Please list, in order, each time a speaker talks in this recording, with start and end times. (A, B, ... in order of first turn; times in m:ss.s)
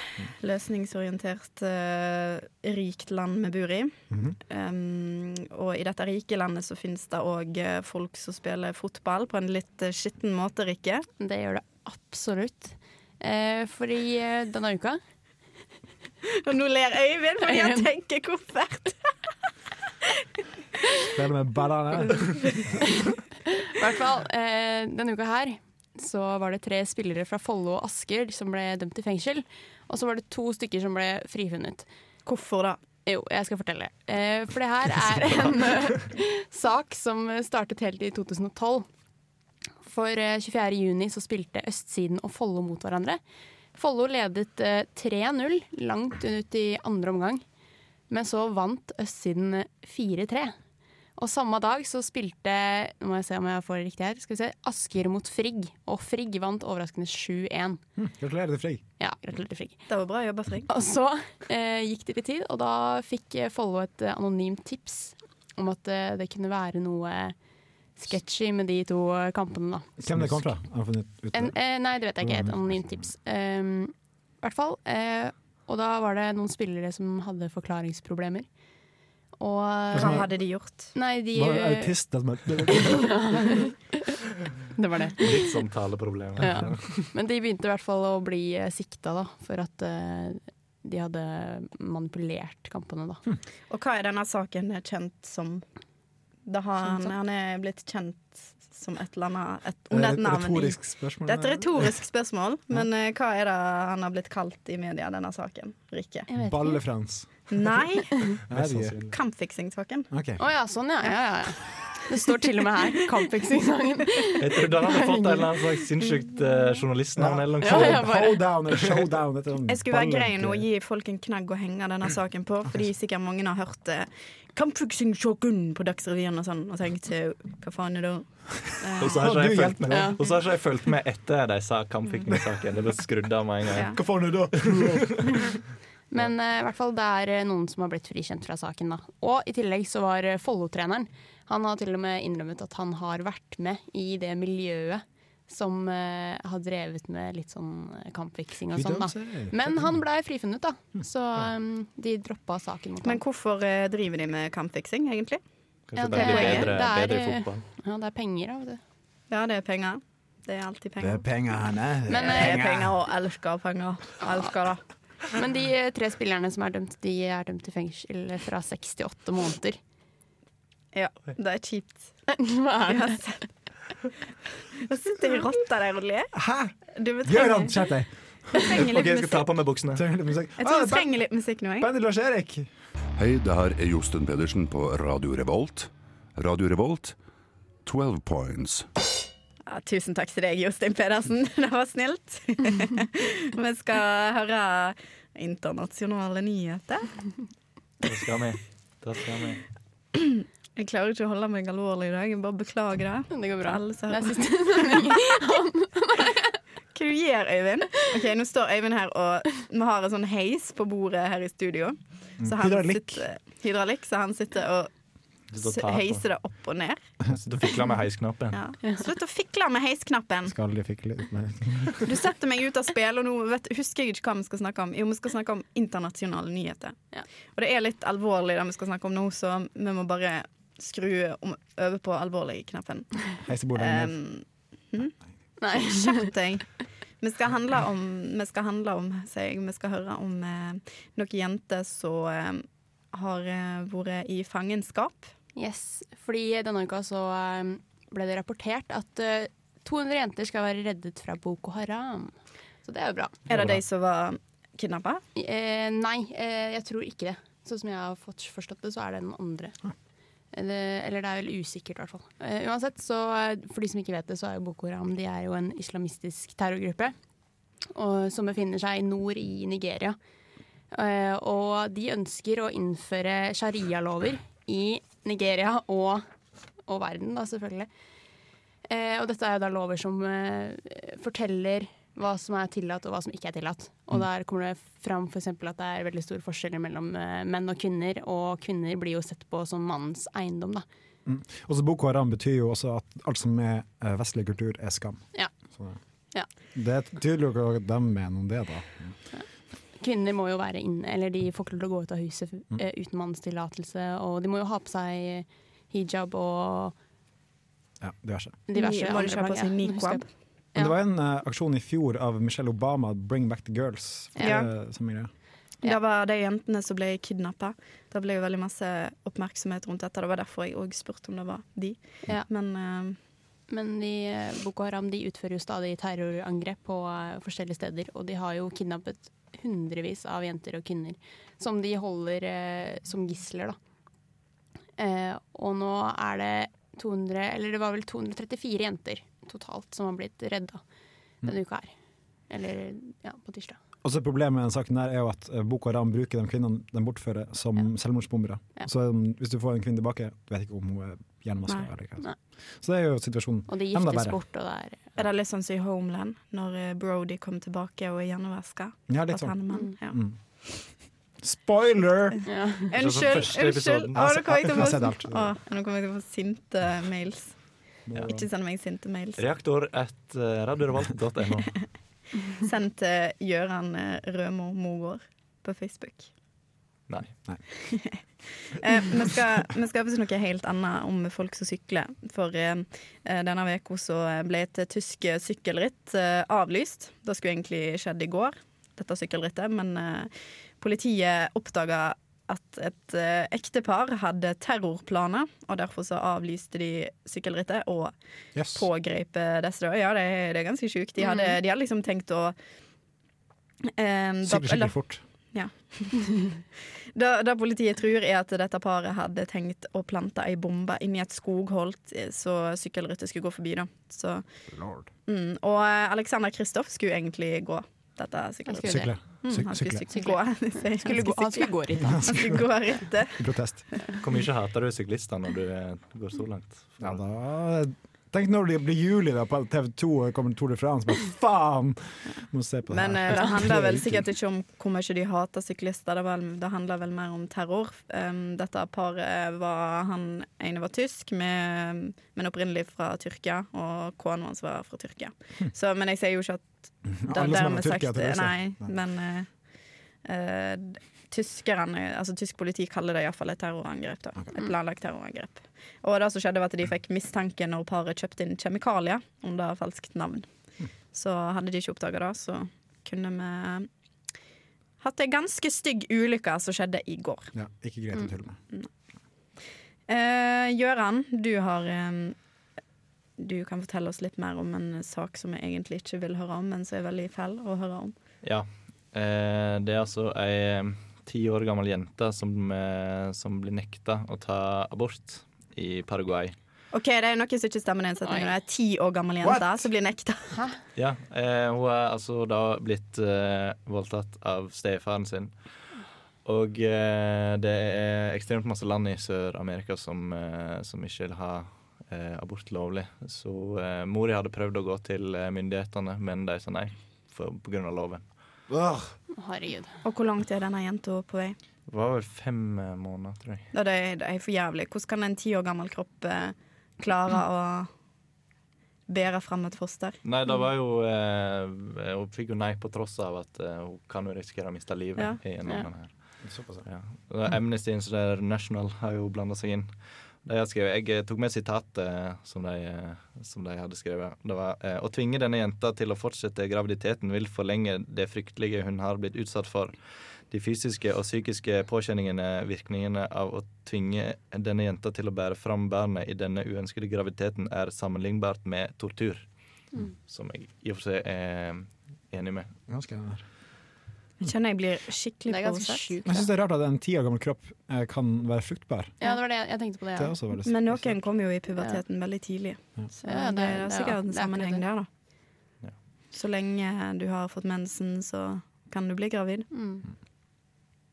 0:00.4-0:03.9 A
0:04.1-0:04.4 B
0:04.5-0:11.0 A
0:11.2-0:15.0 C
0:16.4-0:19.0 A
0:17.4-0:17.9 C
0:21.1-0:22.6 B
0:23.5-0:31.8 C
0:32.2-0:32.8 A
0:33.0-0:38.9 C
0:39.8-0:43.2 C
0:43.7-0:47.4 C
0:48.1-0:50.5 C
0:51.2-0:57.8 C
0:58.0-0:58.8 B
0:59.0-0:59.8 C
0:59.9-1:00.7 A
1:00.7-1:07.3 C
1:08.0-1:09.9 C
1:10.0-1:11.6 B
1:11.3-1:18.5 C
1:12.2-1:13.0 B
1:19.4-1:20.2 C
1:19.9-1:20.3 B
1:20.0-1:20.9 A
1:20.9-1:22.0 C
1:21.3-1:23.5 B
1:22.8-1:23.7 C
1:24.8-1:25.4 C
1:25.2-1:26.8 D
1:26.4-1:33.2 C
1:33.7-1:35.6 A
1:36.4-1:46.3 A
1:39.9-1:41.9 B
1:46.3-1:46.8 C
1:46.4-1:47.5 B
1:47.5-1:48.4 A
1:48.5-1:49.1 B
1:48.5-1:49.0 D
1:49.1-1:50.1 A
1:50.1-1:50.4 B
1:50.4-1:55.5 C
1:54.4-1:58.0 D
1:57.2-2:00.6 B
1:57.6-1:58.5 C
1:59.7-2:09.2 A
2:09.0-2:14.0 D
2:09.0-2:10.2 B
2:09.9-2:10.2 C
2:13.7-2:14.0 A
2:13.9-2:15.3 B
2:16.1-2:33.2 C
2:28.7-2:29.9 B
2:33.0-2:35.4 A
2:35.9-2:37.6 D
2:36.0-2:38.8 C
2:36.1-2:36.7 A
2:39.3-2:41.2 A
2:41.0-2:42.9 B
2:42.1-2:42.6 C
2:42.2-2:44.8 A
2:45.3-2:49.8 C
2:50.9-2:52.1 A
2:52.3-2:53.2 C
2:52.8-2:53.4 A
2:54.8-2:56.3 A
2:56.3-2:58.7 B
2:57.0-2:57.9 A
2:58.5-2:59.5 A
2:58.7-3:00.0 D
2:59.9-3:01.2 B
3:00.6-3:01.9 A
3:01.8-3:02.7 B
3:03.2-3:07.1 E
3:07.8-3:08.8 E
3:09.7-3:17.1 A
3:18.0-3:19.6 D
3:20.1-3:25.1 A
3:23.3-3:26.5 C
3:26.9-3:34.9 A
3:32.4-3:33.2 B
3:35.5-3:36.2 D
3:35.6-3:37.0 A
3:37.3-3:38.6 D
3:38.5-3:40.5 A
3:40.5-3:42.1 B
3:42.0-3:47.0 A
3:47.6-3:55.1 A
3:53.4-3:54.1 B
3:55.6-3:56.3 C
3:55.7-4:05.3 A
4:05.6-4:13.4 C
4:13.5-4:15.2 A
4:15.4-4:19.8 C
4:20.5-4:27.1 C
4:27.9-4:30.2 C
4:30.9-4:36.2 C
4:36.9-4:37.9 C
4:38.8-4:50.8 C
4:51.2-4:55.2 B
4:56.7-4:59.1 B
5:00.0-5:06.9 C
5:08.0-5:08.6 B
5:08.7-5:10.9 C
5:08.7-5:10.2 A
5:10.7-5:15.3 B
5:14.4-5:14.7 A
5:15.8-5:23.2 A
5:23.7-5:33.8 C
5:35.0-5:40.8 C
5:41.4-5:41.9 C
5:42.5-5:43.8 C
5:44.0-5:52.3 B
5:52.8-5:54.4 B
5:53.7-5:55.1 C
5:55.2-6:00.2 A
5:59.1-6:00.4 B
6:01.4-6:02.4 B
6:02.4-6:02.9 C
6:02.9-6:07.5 A
6:02.9-6:04.8 D
6:04.1-6:05.5 B
6:08.1-6:08.5 B
6:08.2-6:09.4 A
6:09.4-6:11.7 D
6:12.5-6:16.3 A
6:17.8-6:38.1 A
6:38.5-6:38.8 B
6:38.7-6:42.5 A
6:43.9-6:44.9 A
6:44.4-6:45.2 B
6:45.5-6:46.6 A
6:47.1-6:54.4 A
6:54.7-6:55.1 B
6:55.3-7:03.4 A
6:58.7-6:59.1 C
6:58.8-7:00.0 B
7:00.1-7:02.3 C
7:02.0-7:02.6 B
7:03.3-7:03.8 B
7:04.2-7:07.2 D
7:07.0-7:14.2 B
7:12.9-7:29.5 A
7:27.2-7:28.9 B
7:30.2-7:40.4 A
7:41.1-7:43.9 A
7:45.0-7:47.5 A
7:47.5-7:48.6 B
7:50.1-7:52.4 A
7:53.4-7:58.1 A
7:58.4-8:06.5 D
8:06.9-8:10.6 A
8:09.4-8:09.8 B
8:11.0-8:15.5 D
8:16.4-8:28.2 D
8:28.7-8:29.1 B
8:29.3-8:29.9 C
8:30.0-8:31.6 A
8:31.9-8:33.7 D
8:33.7-8:37.9 A
8:39.1-8:40.2 A
8:40.2-8:46.1 D
8:46.4-8:46.8 B
8:46.8-8:49.9 D
8:50.4-8:59.9 D
9:00.5-9:09.4 D
9:10.3-9:12.7 D
9:12.9-9:13.4 B
9:14.4-9:16.1 A
9:15.5-9:16.5 C
9:16.2-9:19.2 B
9:19.2-9:20.4 C
9:20.2-9:21.1 B
9:20.6-9:25.1 A
9:23.2-9:24.8 C
9:26.3-9:29.7 A
9:29.7-9:30.0 C